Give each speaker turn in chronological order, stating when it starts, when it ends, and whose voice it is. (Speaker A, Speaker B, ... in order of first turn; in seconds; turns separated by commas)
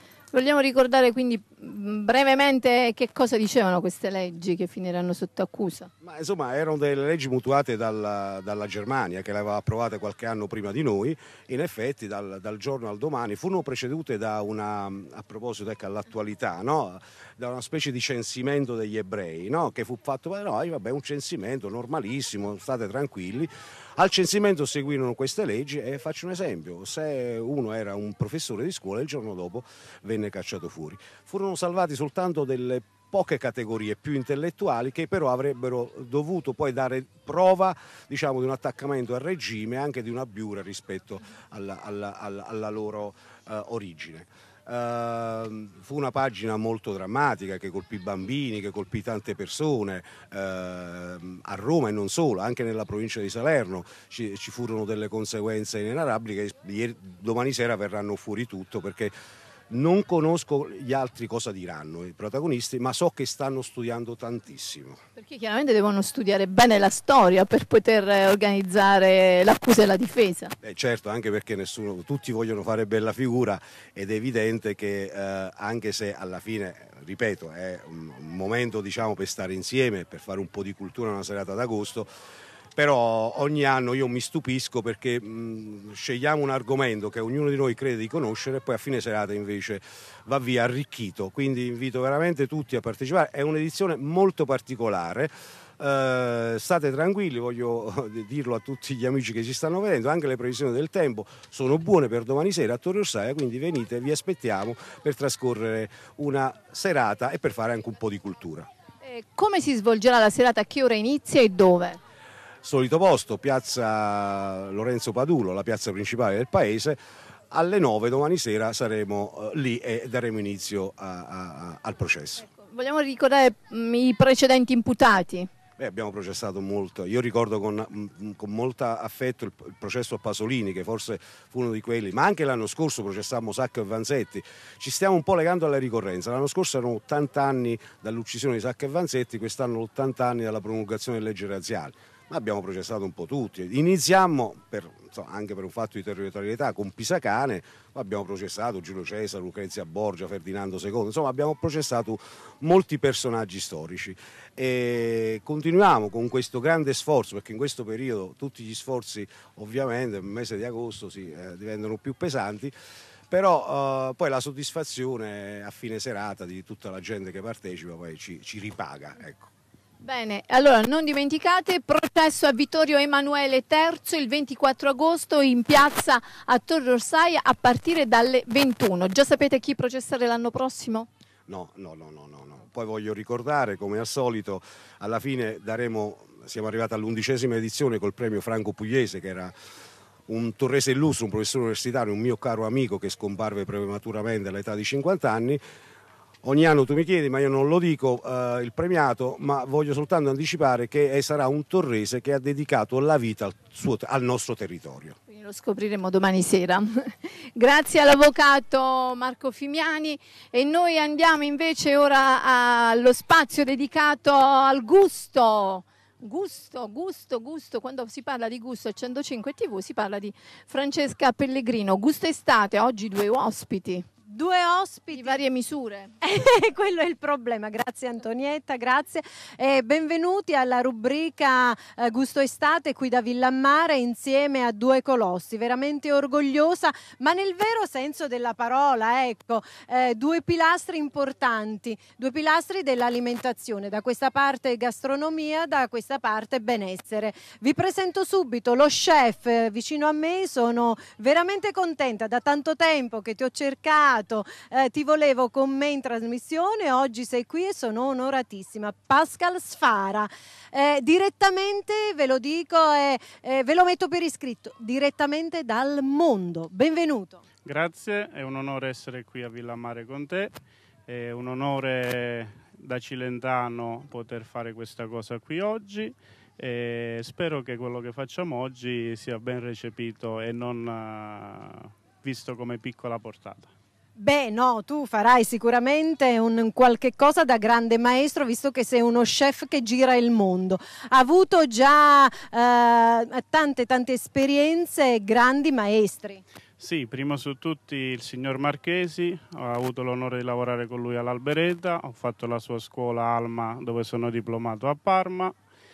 Speaker A: 0.3-5.9, Speaker B: 6.0-59.1, Speaker B: 59.7-65.0, Speaker A: 65.2-70.5, Speaker B: 70.6-82.1, Speaker B: 82.8-108.7, Speaker A: 109.0-112.0, Speaker B: 112.6-117.0, Speaker B: 117.5-122.4, Speaker A: 122.4-125.5, Speaker B: 125.8-162.7, Speaker B: 163.3-169.5, Speaker A: 170.0-181.1, Speaker B: 181.5-189.5, Speaker B: 190.3-195.6, Speaker B: 196.4-205.2, Speaker A: 205.3-224.1, Speaker C: 224.3-225.4, Speaker A: 225.2-226.1, Speaker C: 226.2-267.4, Speaker D: 267.6-283.7, Speaker C: 284.2-296.4, Speaker D: 296.8-305.5